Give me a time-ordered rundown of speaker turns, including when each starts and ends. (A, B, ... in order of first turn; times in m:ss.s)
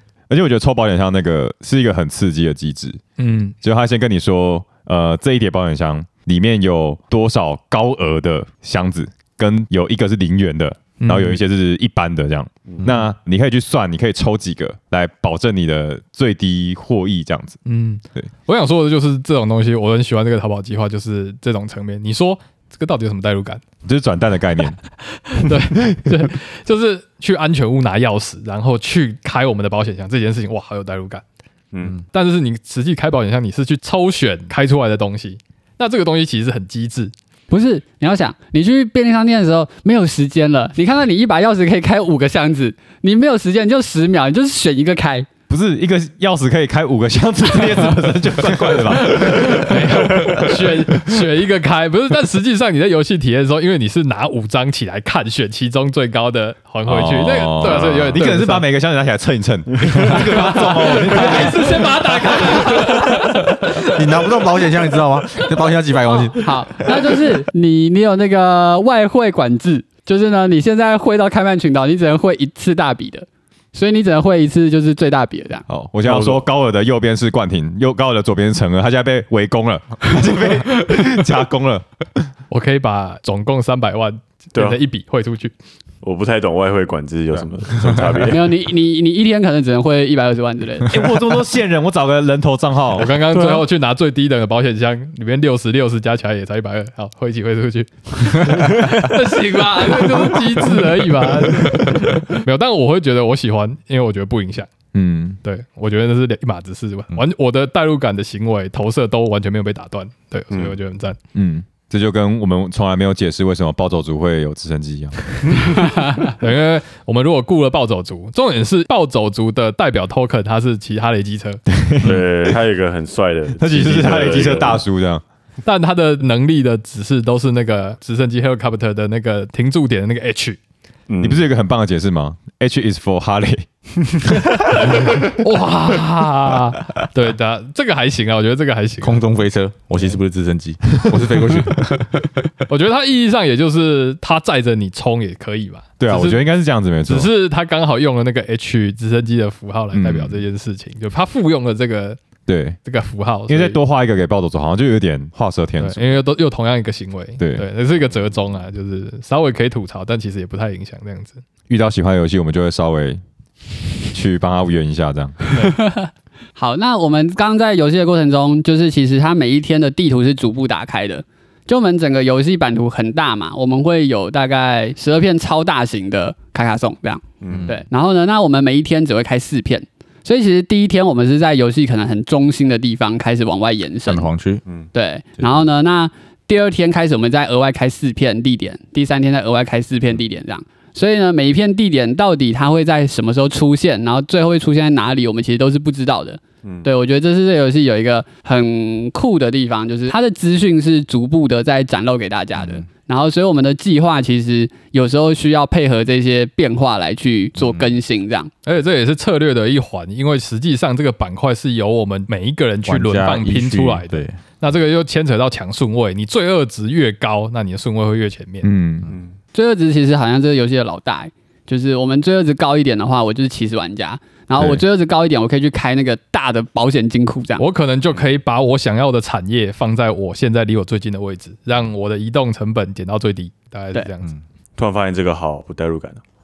0:00.3-0:03.0 A
0:03.2-0:03.6 B
0:03.6-0:17.6 A
0:11.0-0:11.4 B
0:17.6-0:23.6 B
0:23.8-0:24.8 A
0:25.0-0:31.2 B
0:25.4-0:26.2 A
0:31.7-0:32.0 C
0:32.1-0:37.1 B
0:37.5-0:45.3 D
0:45.5-0:51.2 A
0:49.1-0:58.7 B
0:56.8-1:02.5 A
1:00.0-1:03.6 B
1:01.1-1:01.5 D
1:03.5-1:07.2 E
1:06.2-1:15.6 D
1:15.7-1:22.3 A
1:16.0-1:16.4 C
1:22.5-1:25.5 B
1:24.5-1:24.8 C
1:26.0-1:28.6 C
1:28.3-1:31.1 D
1:30.9-1:33.1 A
1:32.9-1:44.7 B
1:44.9-1:45.4 A
1:45.4-1:51.2 B
1:50.5-1:50.8 C
1:51.3-1:55.8 A
1:56.2-2:01.6 B
2:01.7-2:02.5 A
2:02.0-2:04.8 C
2:03.6-2:05.2 A
2:05.6-2:10.6 B
2:11.1-2:11.4 C
2:11.2-2:13.6 A
2:14.2-2:15.3 A
2:15.4-2:19.2 B
2:19.0-2:22.2 E
2:22.7-2:26.5 B
2:26.0-2:27.3 A
2:27.0-2:32.2 B
2:29.9-2:30.4 A
2:32.5-2:32.8 A
2:32.8-2:33.8 B
2:33.5-2:36.1 A
2:35.8-2:41.4 B
2:37.4-2:37.6 A
2:41.7-2:43.2 A
2:44.1-2:45.5 A
2:45.8-3:04.3 D
2:57.4-2:57.7 C
2:57.5-2:57.8 E
3:04.0-3:04.6 E
3:04.9-3:28.5 D
3:16.6-3:16.9 C
3:22.6-3:22.8 E
3:28.6-3:38.7 B
3:32.8-3:34.4 E
3:38.6-3:39.1 A
3:39.1-3:39.4 C
3:39.5-3:47.6 D
3:44.6-3:44.8 A
3:47.6-3:54.3 B
3:54.8-3:56.2 C